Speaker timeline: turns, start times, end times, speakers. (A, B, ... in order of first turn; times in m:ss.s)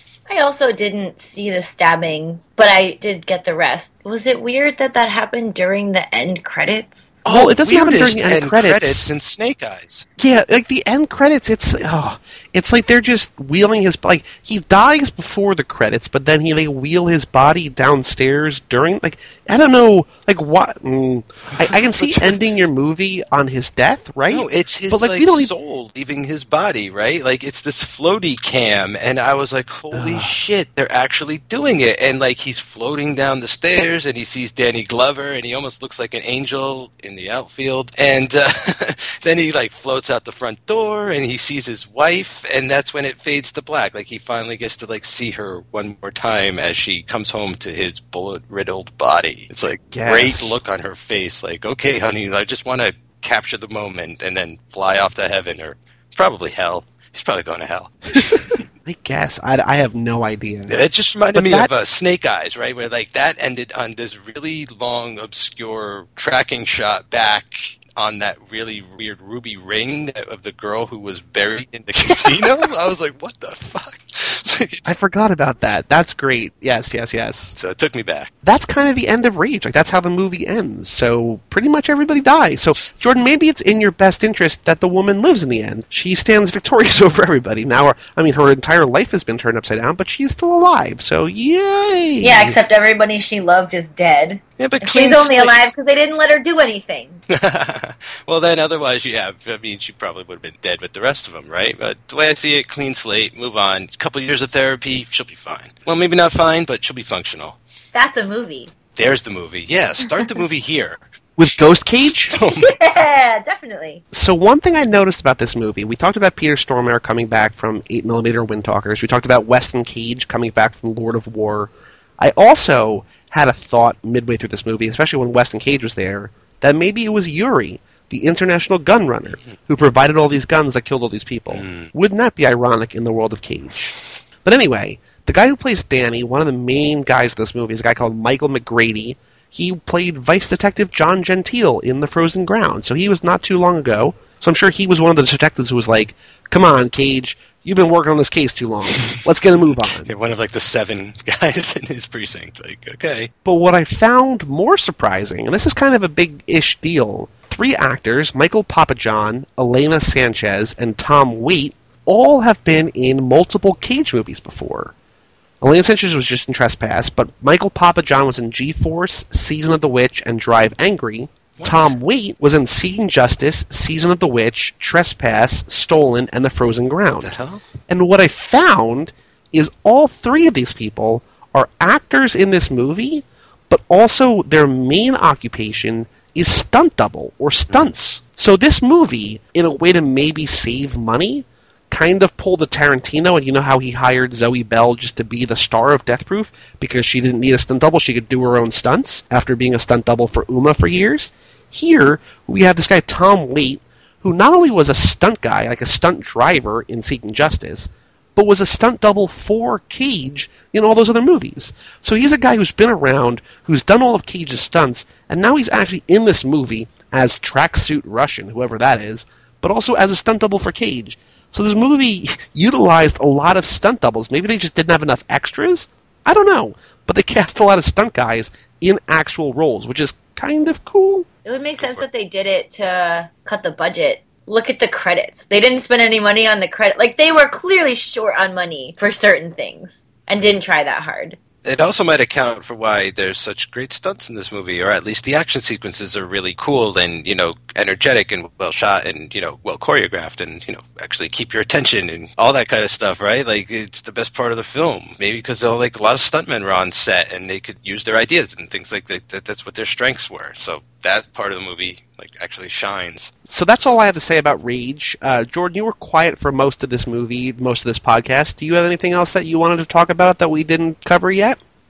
0:00.3-0:07.1 A
0:07.2-0:09.1 B
0:07.2-0:10.1 C
0:10.2-0:25.5 B
0:21.7-0:22.4 C
0:24.3-0:58.6 C
0:29.9-0:30.3 B
0:49.9-0:50.6 B
0:58.8-1:00.8 B
1:00.7-1:14.8 C
1:01.3-1:01.7 B
1:12.0-1:12.5 B
1:14.8-1:17.6 B
1:17.6-1:18.3 C
1:18.4-1:32.6 B
1:32.2-1:37.2 A
1:34.6-1:35.7 C
1:37.3-1:47.6 C
1:47.9-1:48.7 A
1:49.0-1:51.0 C
1:51.4-1:52.4 B
1:52.3-1:52.8 C
1:52.5-1:54.0 A
1:54.1-2:30.1 B
2:11.5-2:11.9 C
2:30.0-2:33.3 C
2:33.4-2:44.9 B
2:45.6-2:57.4 B
2:51.6-2:52.0 C
2:57.2-2:57.6 C
2:57.9-3:51.3 B
3:51.4-4:01.4 A
4:01.6-4:23.3 C
4:23.5-4:31.6 B